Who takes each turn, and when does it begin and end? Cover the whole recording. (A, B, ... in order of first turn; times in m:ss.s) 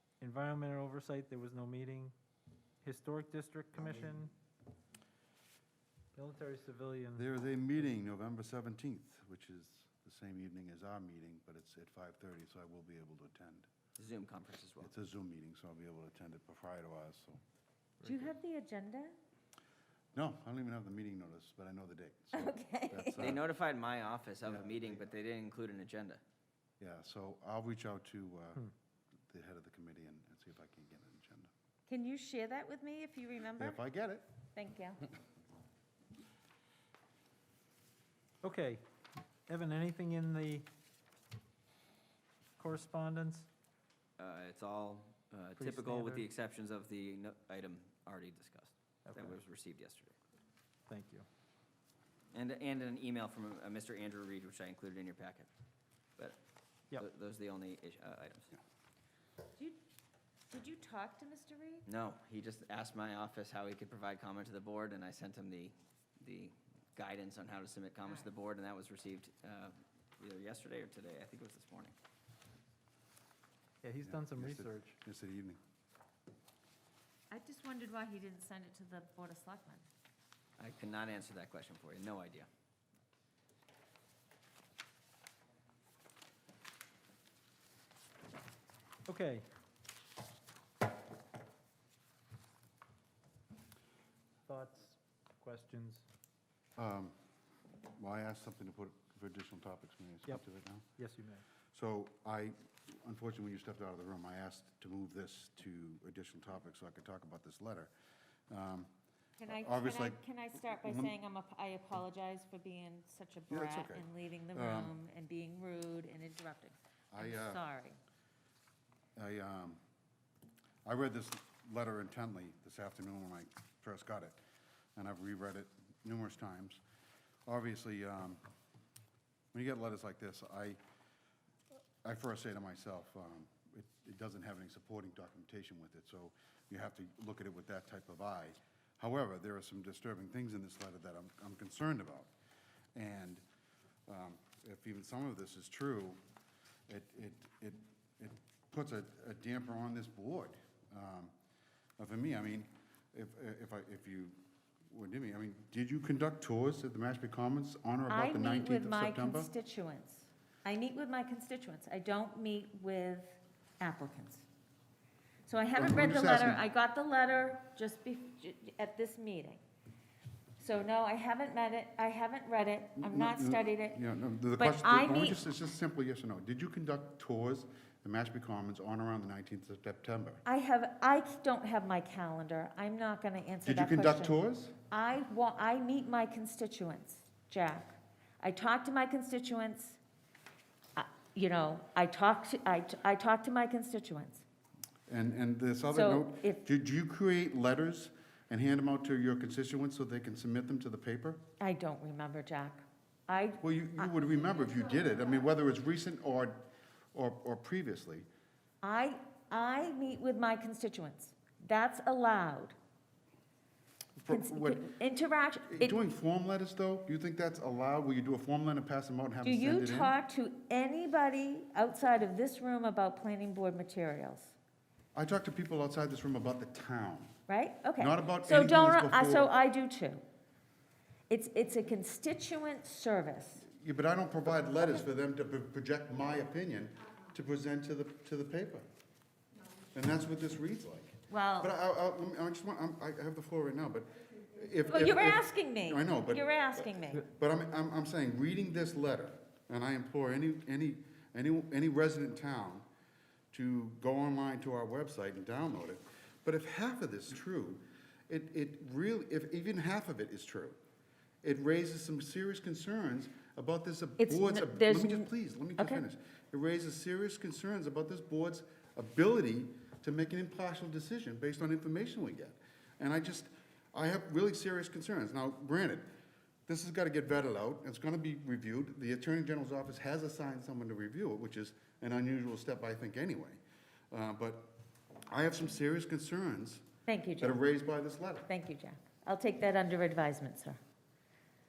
0:00.2-0:02.1 A
0:02.8-0:04.3 A
0:06.2-0:07.2 A
0:07.2-0:13.7 B
0:14.0-0:14.9 C
0:14.8-0:17.4 B
0:18.0-0:19.2 D
0:20.1-0:23.4 B
0:22.3-0:23.3 D
0:23.2-0:26.2 C
0:26.8-0:28.6 B
0:29.3-0:31.5 B
0:31.9-0:33.8 D
0:33.6-0:34.3 B
0:34.5-0:35.0 D
0:38.4-0:38.8 A
0:39.5-0:40.7 A
0:42.6-0:43.5 A
0:44.2-0:50.2 C
0:45.6-0:46.3 A
0:49.1-0:49.4 A
0:50.9-0:51.3 A
0:52.3-0:55.5 C
0:57.0-0:58.5 C
1:00.5-1:01.9 D
1:01.9-1:12.0 C
1:13.8-1:15.0 A
1:14.0-1:15.6 B
1:17.3-1:19.8 D
1:20.6-1:22.5 C
1:29.1-1:29.4 A
1:34.5-1:36.1 A
1:36.8-1:37.1 B
1:38.0-1:40.9 B
1:41.0-1:41.4 A
1:41.7-1:47.9 B
1:48.5-1:48.9 B
1:49.4-1:58.0 D
1:49.4-1:51.2 B
1:53.5-1:54.9 B
1:57.1-1:57.6 B
1:59.2-1:59.8 B
2:00.8-2:04.4 B
2:05.0-2:06.8 B
2:07.5-2:08.4 B
2:09.5-2:10.8 B
2:12.0-2:22.3 B
2:23.0-2:23.4 B
2:24.1-2:26.2 B
2:26.9-2:31.3 B
2:32.0-2:34.4 B
2:34.9-2:39.5 B
2:38.1-2:44.5 D
2:45.5-2:49.6 D
2:45.8-2:46.6 B
2:50.6-2:54.0 D
2:53.0-3:00.4 B
2:54.5-2:55.4 D
3:00.4-3:04.4 D
3:03.6-3:04.8 B
3:04.9-3:10.0 D
3:11.0-3:14.4 D
3:15.1-3:21.4 B
3:15.9-3:16.6 D
3:21.6-3:24.1 D
3:23.6-3:28.3 B
3:28.8-3:32.8 D
3:34.2-3:34.9 B
3:34.3-3:36.0 D
3:35.7-3:40.1 B
3:39.4-3:44.6 D
3:45.2-3:47.4 B
3:47.5-3:50.2 D
3:48.0-3:49.5 B
3:51.3-3:53.6 D
3:53.6-3:58.9 B
3:59.9-4:12.9 B
4:01.3-4:01.7 D
4:04.9-4:07.3 D
4:13.5-4:20.8 B
4:21.4-4:36.1 B
4:24.2-4:26.0 D
4:36.7-4:44.8 B
4:45.3-4:46.8 B
4:47.1-4:47.6 D
4:47.4-4:48.5 B
4:48.5-4:50.8 D